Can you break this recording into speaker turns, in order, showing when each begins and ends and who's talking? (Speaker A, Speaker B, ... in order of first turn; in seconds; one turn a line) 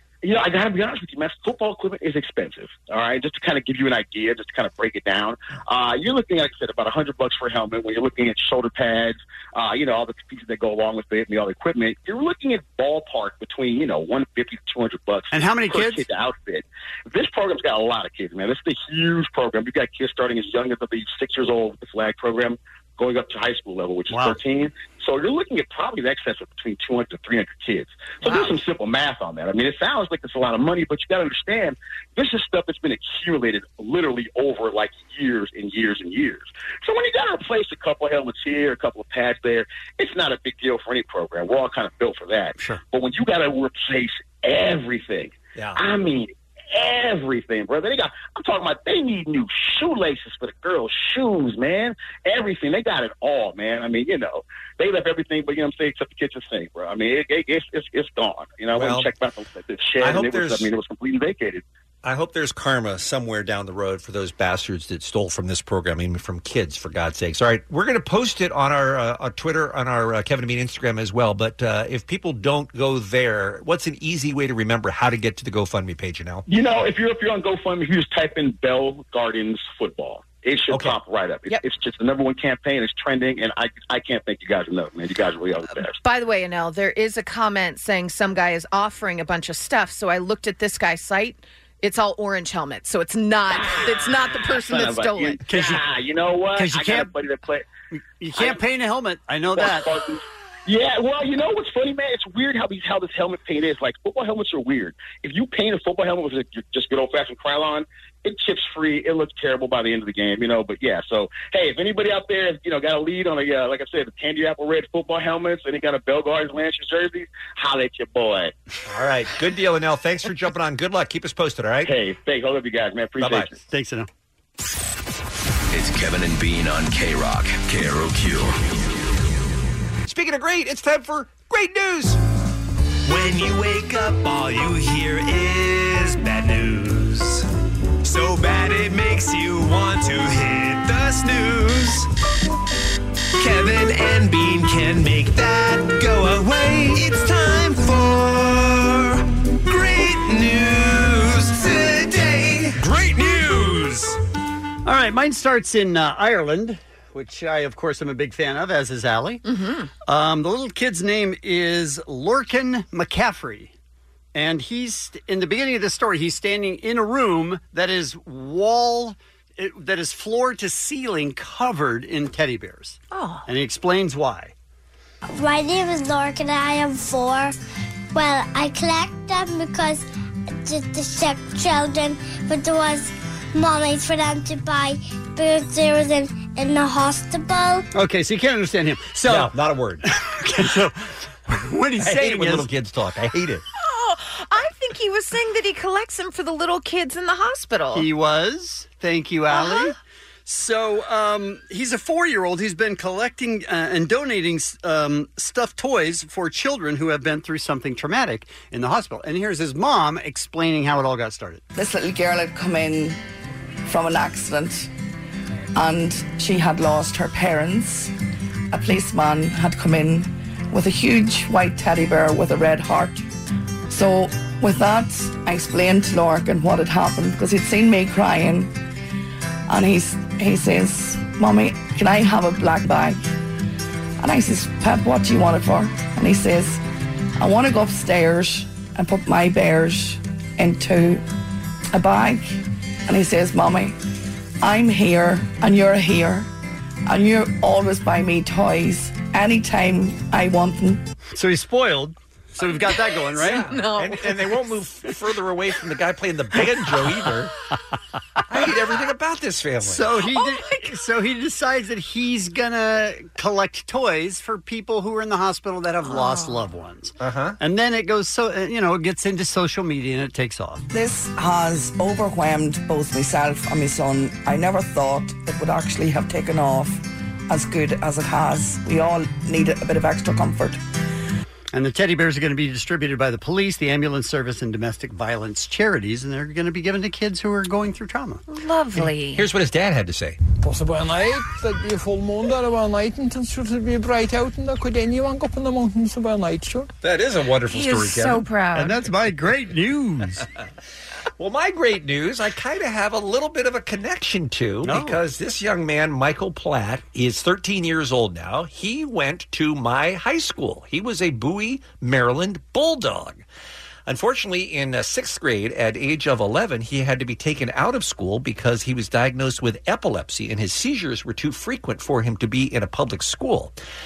Speaker A: 0.2-61.6
Speaker B: 15.3-16.1
Speaker B: 24.1-24.4
Speaker C: 28.2-28.5
Speaker B: 42.6-42.8
Speaker D: 45.5-45.8
Speaker D: 58.7-59.1
Speaker D: 60.0-60.7
Speaker D: 62.0-76.4
Speaker A: 76.5-86.0
Speaker D: 80.7-81.0
Speaker C: 86.0-95.4
Speaker A: 93.6-97.7
Speaker B: 95.5-95.8
Speaker B: 96.5-97.1
Speaker B: 97.9-99.9
Speaker A: 99.5-118.5
Speaker D: 118.8-121.9
Speaker A: 121.8-123.6
Speaker D: 123.2-123.5
Speaker B: 123.7-124.1
Speaker E: 125.7-128.8
Speaker D: 130.0-132.2
Speaker F: 133.0-137.4
Speaker F: 138.0-142.1
Speaker F: 143.4-154.2
Speaker B: 154.8-159.4
Speaker C: 159.4-159.9
Speaker B: 160.1-163.7
Speaker B: 164.3-174.5
Speaker C: 173.1-173.5
Speaker G: 175.3-177.6
Speaker G: 178.1-187.8
Speaker B: 187.9-189.5
Speaker D: 189.2-190.0
Speaker B: 190.1-190.9
Speaker B: 191.5-192.7
Speaker D: 192.0-193.6
Speaker C: 193.8-198.1
Speaker B: 197.9-211.6
Speaker C: 199.5-199.9
Speaker H: 211.7-213.2
Speaker H: 213.8-214.9
Speaker H: 215.7-218.1
Speaker H: 218.7-223.2
Speaker H: 223.9-228.7
Speaker H: 229.7-233.2
Speaker H: 234.2-236.8
Speaker H: 237.4-241.2
Speaker H: 241.9-243.9
Speaker H: 244.6-246.5
Speaker H: 247.1-251.0
Speaker B: 251.3-253.7
Speaker D: 253.3-257.5
Speaker C: 253.5-254.5
Speaker D: 258.5-260.1
Speaker B: 259.8-270.9
Speaker C: 260.3-260.9
Speaker C: 266.0-266.7
Speaker D: 267.2-267.6
Speaker H: 270.9-280.8
Speaker B: 281.7-288.4
Speaker C: 288.5-289.4
Speaker D: 288.9-290.4
Speaker I: 290.6-296.9
Speaker D: 297.0-298.5
Speaker C: 297.7-298.9
Speaker B: 298.7-300.4
Speaker D: 301.4-313.4
Speaker B: 304.8-305.2
Speaker D: 314.1-323.8